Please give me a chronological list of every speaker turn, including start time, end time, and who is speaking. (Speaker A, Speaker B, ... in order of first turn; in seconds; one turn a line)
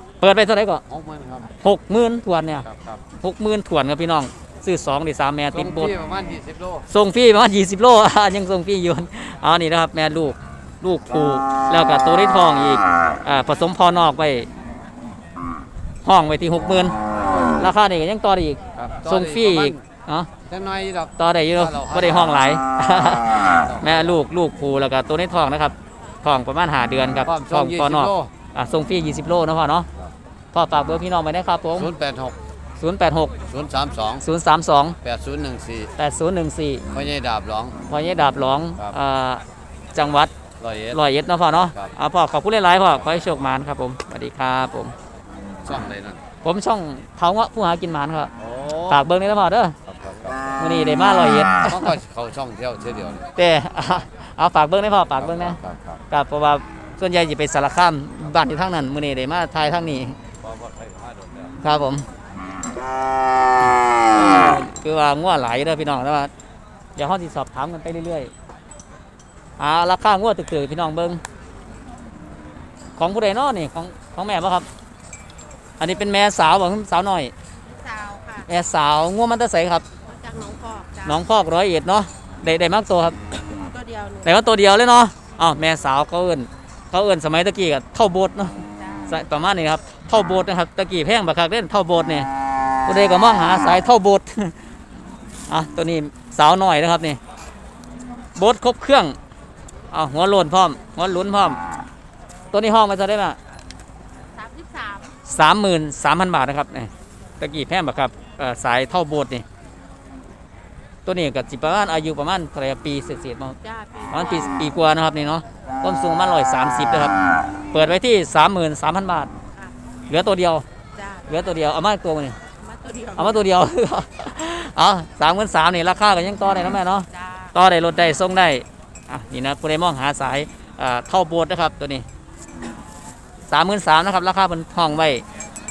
Speaker A: 0.2-0.8
Speaker B: 0.9-1.5
Speaker A: 1.6-2.6
Speaker B: 2.6-3.0
Speaker A: 3.2-5.9
Speaker B: 5.5-6.9
Speaker A: 6.9-14.5
Speaker A: 16.1-16.9
Speaker A: 17.6-20.3
Speaker B: 18.8-19.8
Speaker B: 20.5-22.4
Speaker A: 21.2-29.9
Speaker B: 23.6-24.1
Speaker B: 27.2-28.3
Speaker A: 30.5-31.9
Speaker B: 31.7-32.4
Speaker A: 32.8-33.4
Speaker B: 33.5-34.2
Speaker A: 34.2-35.0
Speaker B: 35.0-35.9
Speaker A: 36.0-36.8
Speaker B: 36.9-37.8
Speaker A: 37.9-39.4
Speaker A: 40.0-40.3
Speaker B: 40.6-41.0
Speaker A: 40.9-44.9
Speaker B: 45.6-46.2
Speaker A: 46.4-48.3
Speaker B: 48.4-49.0
Speaker A: 48.9-49.8
Speaker B: 49.9-50.4
Speaker A: 50.6-51.9
Speaker B: 51.7-53.3
Speaker A: 53.4-55.6
Speaker B: 55.2-56.0
Speaker A: 56.1-60.2
Speaker B: 60.4-61.6
Speaker A: 61.6-62.1
Speaker A: 64.1-66.3
Speaker A: 67.0-68.3
Speaker A: 69.6-71.2
Speaker A: 73.0-74.7
Speaker A: 75.8-77.3
Speaker C: 77.8-78.5
Speaker A: 78.5-79.8
Speaker C: 80.0-81.2
Speaker A: 81.0-83.2
Speaker C: 83.6-84.4
Speaker A: 84.2-88.5
Speaker C: 88.8-89.0
Speaker A: 89.1-92.3
Speaker A: 92.9-94.5
Speaker A: 95.5-97.2
Speaker A: 98.4-99.2
Speaker A: 99.9-101.6
Speaker A: 102.5-103.4
Speaker C: 104.3-105.2
Speaker A: 105.3-109.5
Speaker A: 111.1-113.6
Speaker C: 113.6-114.7
Speaker A: 114.1-117.1
Speaker A: 117.7-119.3
Speaker A: 120.1-120.7
Speaker C: 121.0-121.3
Speaker A: 121.3-122.4
Speaker C: 122.6-123.5
Speaker A: 123.2-132.1
Speaker C: 127.1-127.5
Speaker A: 133.5-135.2